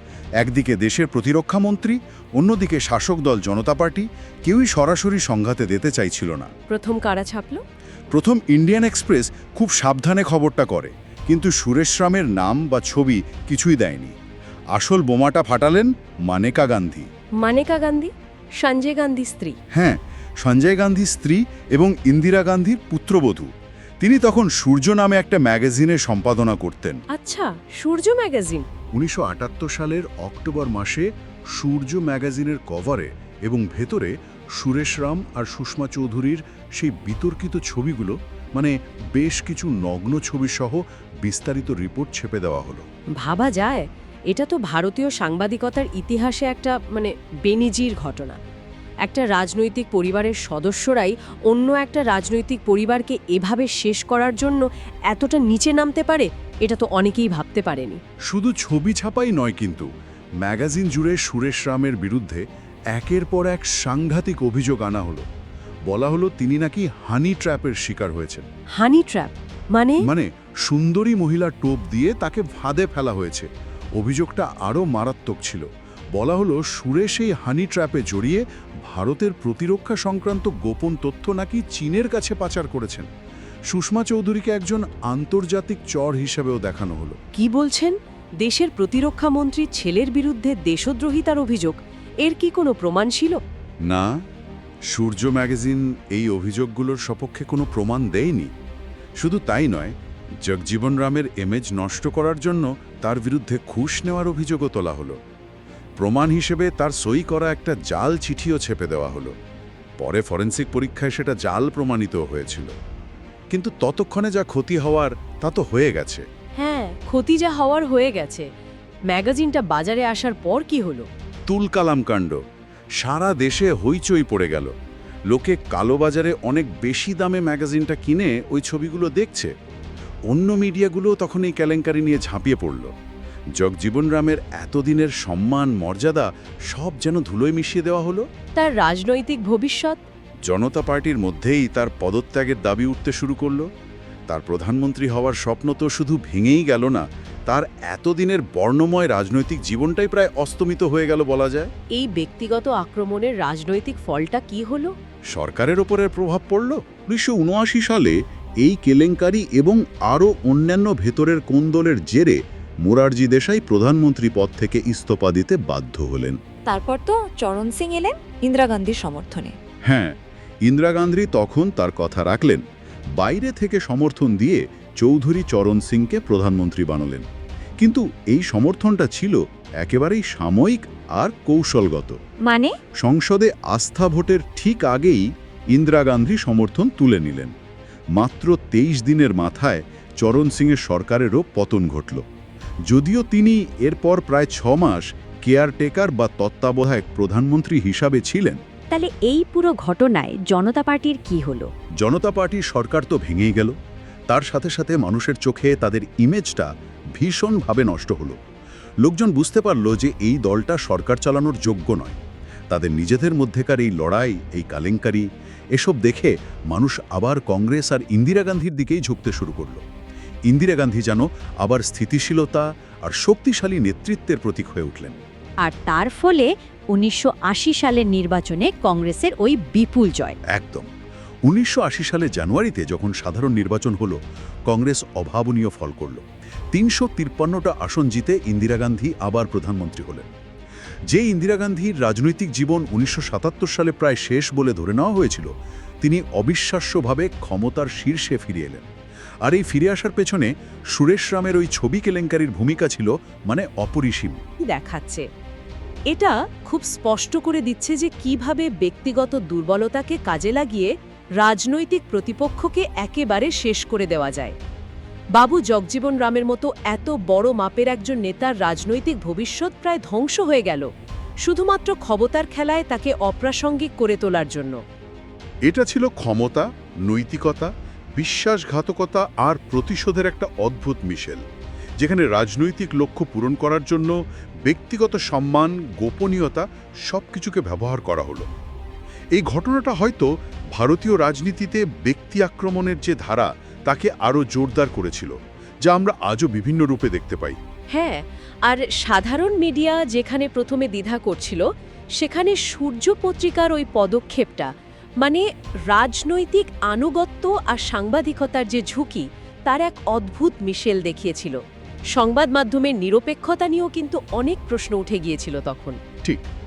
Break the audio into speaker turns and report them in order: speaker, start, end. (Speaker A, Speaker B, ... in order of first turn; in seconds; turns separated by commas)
Speaker A: 0.4-6.5, Speaker B: 6.7-7.6, Speaker A: 8.1-14.1, Speaker A: 14.7-17.1, Speaker B: 17.4-19.6, Speaker A: 19.7-27.0, Speaker B: 27.1-28.7, Speaker A: 28.9-42.8, Speaker B: 43.2-48.4, Speaker B: 49.0-58.0, Speaker A: 58.3-59.9, Speaker A: 60.4-65.2, Speaker A: 65.9-68.5, Speaker B: 68.8-70.0, Speaker A: 70.0-83.1, Speaker A: 83.7-87.2, Speaker B: 87.3-93.4, Speaker A: 93.8-94.2, Speaker A: 94.9-98.5, Speaker A: 99.2-105.2, Speaker A: 106.0-109.3, Speaker A: 110.0-112.7, Speaker A: 113.5-116.2, Speaker B: 116.6-118.5, Speaker B: 119.1-121.1, Speaker A: 121.5-122.4, Speaker A: 123.0-124.7, Speaker A: 125.3-129.5, Speaker A: 130.3-132.9, Speaker A: 133.6-138.2, Speaker B: 138.6-140.0, Speaker A: 140.5-143.7, Speaker A: 144.3-151.7, Speaker B: 151.9-154.9, Speaker A: 155.3-166.4, Speaker C: 166.7-169.5, Speaker A: 169.8-170.1, Speaker A: 170.7-172.6, Speaker A: 173.2-177.2, Speaker A: 177.8-182.2, Speaker C: 182.4-182.7, Speaker A: 183.0-187.5, Speaker A: 188.2-192.2, Speaker A: 192.9-198.6, Speaker D: 198.9-201.7, Speaker A: 202.0-203.7, Speaker A: 204.3-208.4, Speaker A: 209.0-212.2, Speaker A: 212.7-219.8, Speaker A: 220.5-225.2, Speaker D: 225.6-230.3, Speaker A: 230.5-230.9, Speaker A: 231.4-240.3, Speaker A: 241.1-245.5, Speaker A: 246.0-248.9, Speaker A: 249.4-254.4, Speaker B: 254.7-255.2, Speaker B: 256.1-264.5, Speaker B: 265.3-270.9, Speaker B: 271.4-274.8, Speaker A: 275.6-281.4, Speaker A: 282.0-288.5, Speaker A: 289.3-297.6, Speaker B: 297.9-301.6, Speaker B: 302.1-311.6, Speaker B: 312.1-316.0